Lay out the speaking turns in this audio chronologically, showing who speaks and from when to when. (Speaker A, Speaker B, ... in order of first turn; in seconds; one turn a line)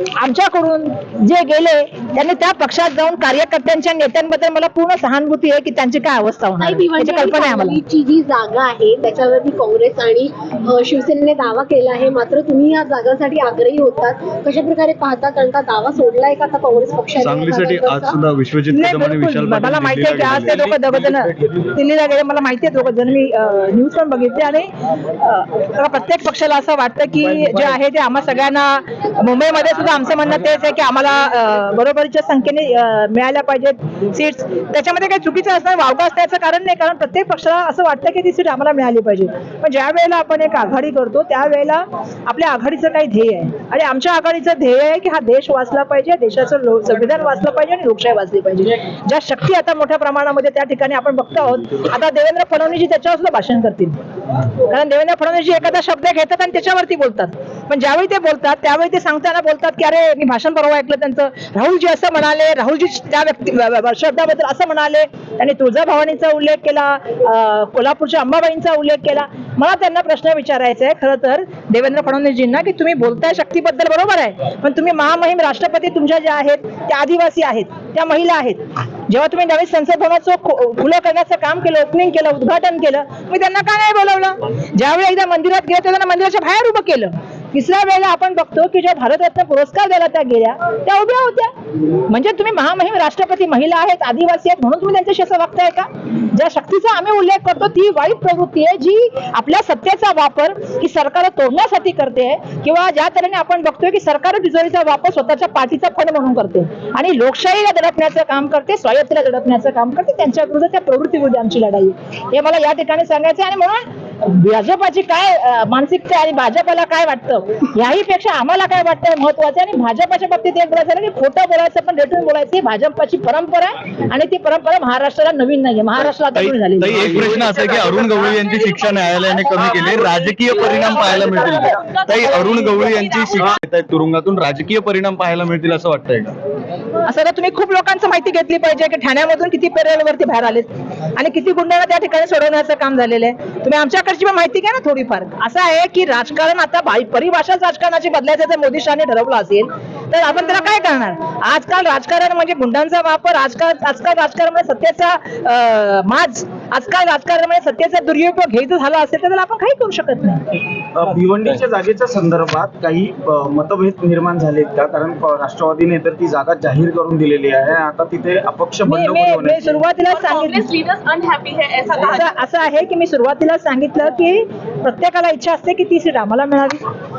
Speaker A: 0.2-7.8
Speaker B: 6.6-18.2
Speaker C: 17.2-20.7
Speaker A: 18.7-54.0
Speaker A: 54.6-91.5
Speaker A: 92.1-127.3
Speaker C: 126.3-136.3
Speaker D: 127.3-128.0
Speaker E: 127.9-133.6
Speaker A: 130.8-131.4
Speaker A: 137.1-160.6
Speaker D: 161.0-169.8
Speaker A: 168.9-170.7
Speaker E: 170.1-172.3
Speaker A: 171.9-176.8